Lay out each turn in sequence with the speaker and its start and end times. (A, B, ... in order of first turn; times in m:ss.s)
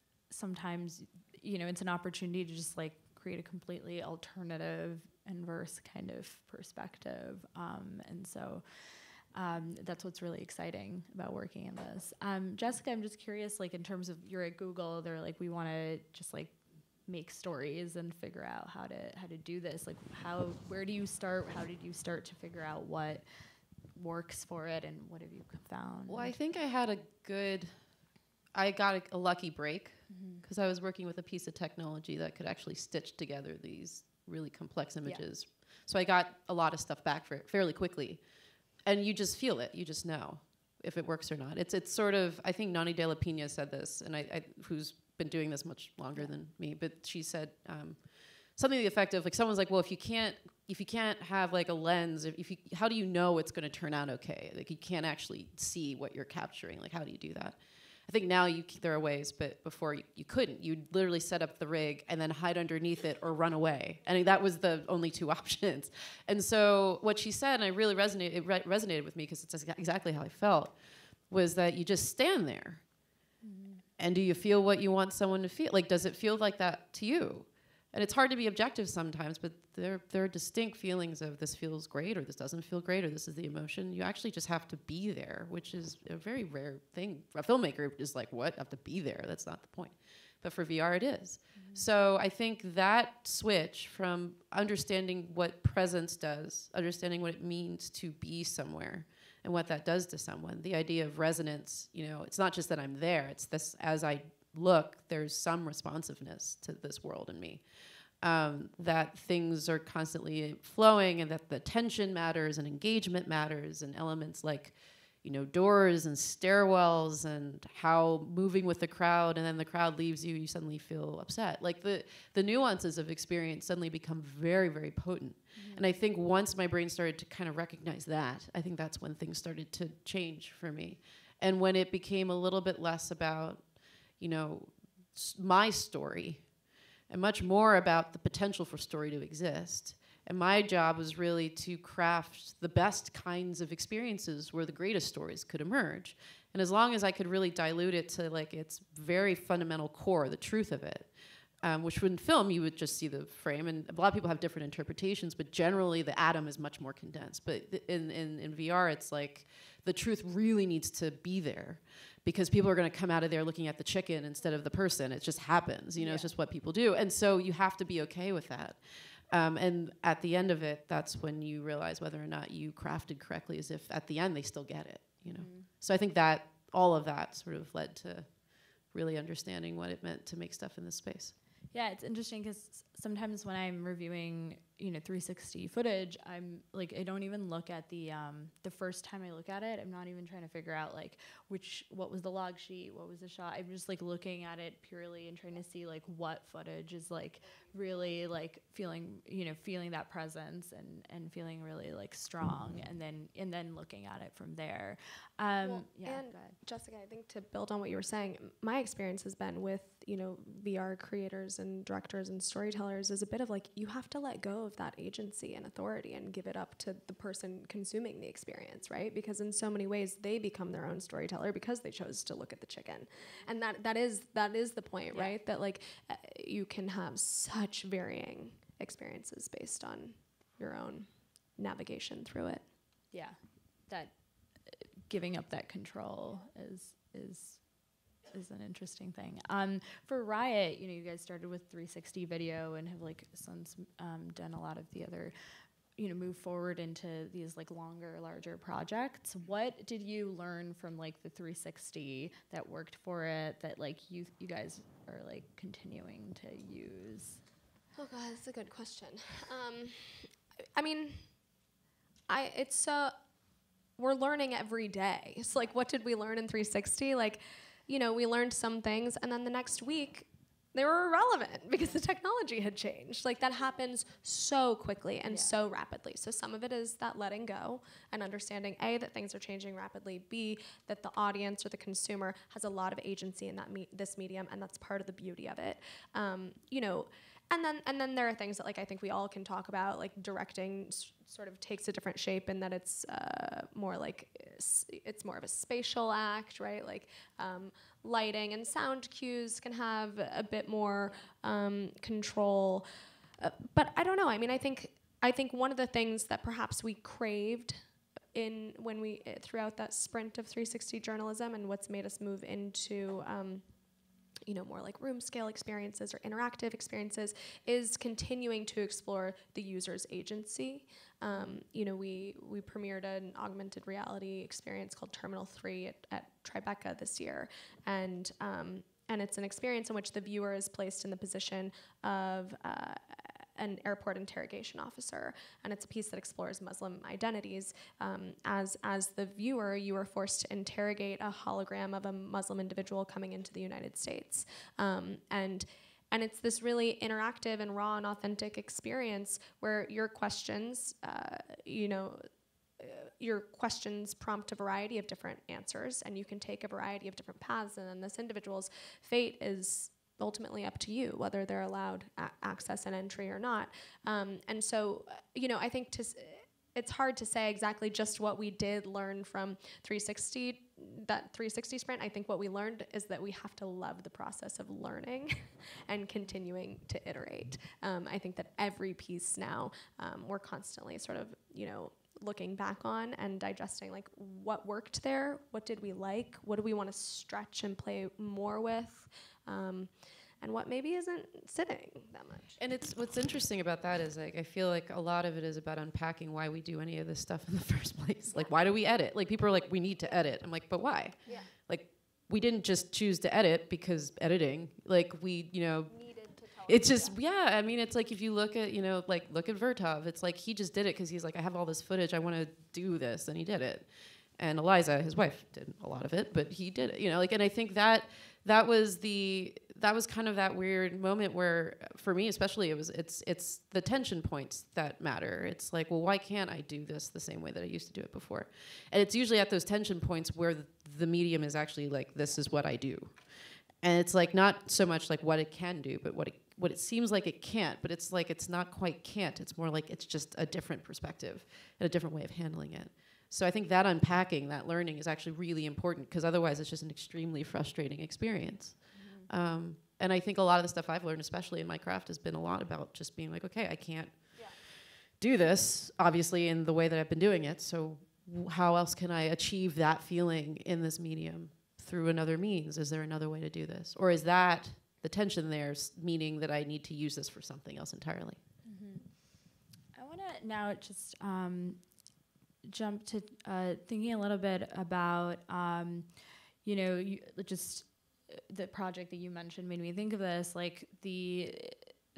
0:00.3-0:16.5 A
0:17.0-0:23.2 A
0:23.9-0:26.4 A
0:26.1-0:27.7 B
0:28.5-0:38.2 B
0:30.1-0:30.4 A
0:38.8-1:10.8 B
1:11.3-1:12.8 B
1:13.4-1:13.8 A
1:14.0-1:47.6 B
1:31.5-1:31.8 A
1:48.2-2:16.5 B
2:05.5-2:05.8 A
2:17.1-3:01.3 B
2:46.0-2:46.3 A
2:55.2-2:55.7 A
3:01.7-3:26.6 A
3:25.6-3:52.7 C
3:45.1-3:45.4 A
3:53.1-3:53.4 A
3:53.9-3:57.6 A
3:58.3-4:05.3 A
4:06.0-4:17.4 A
4:17.9-4:21.2 C
4:22.3-4:23.1 C
4:24.0-5:02.8 C
4:35.3-4:35.5 A
5:03.4-5:07.8 C
5:08.3-5:13.6 C
5:14.5-5:52.2 C
5:21.3-5:21.6 A
5:52.8-6:29.9 C
6:30.4-6:32.6 C
6:32.6-6:46.1 B
6:45.9-6:47.1 C
6:46.6-7:48.4 B
7:28.9-7:29.3 A
7:48.6-7:51.8 A
7:52.6-7:56.1 A
7:56.6-8:01.9 A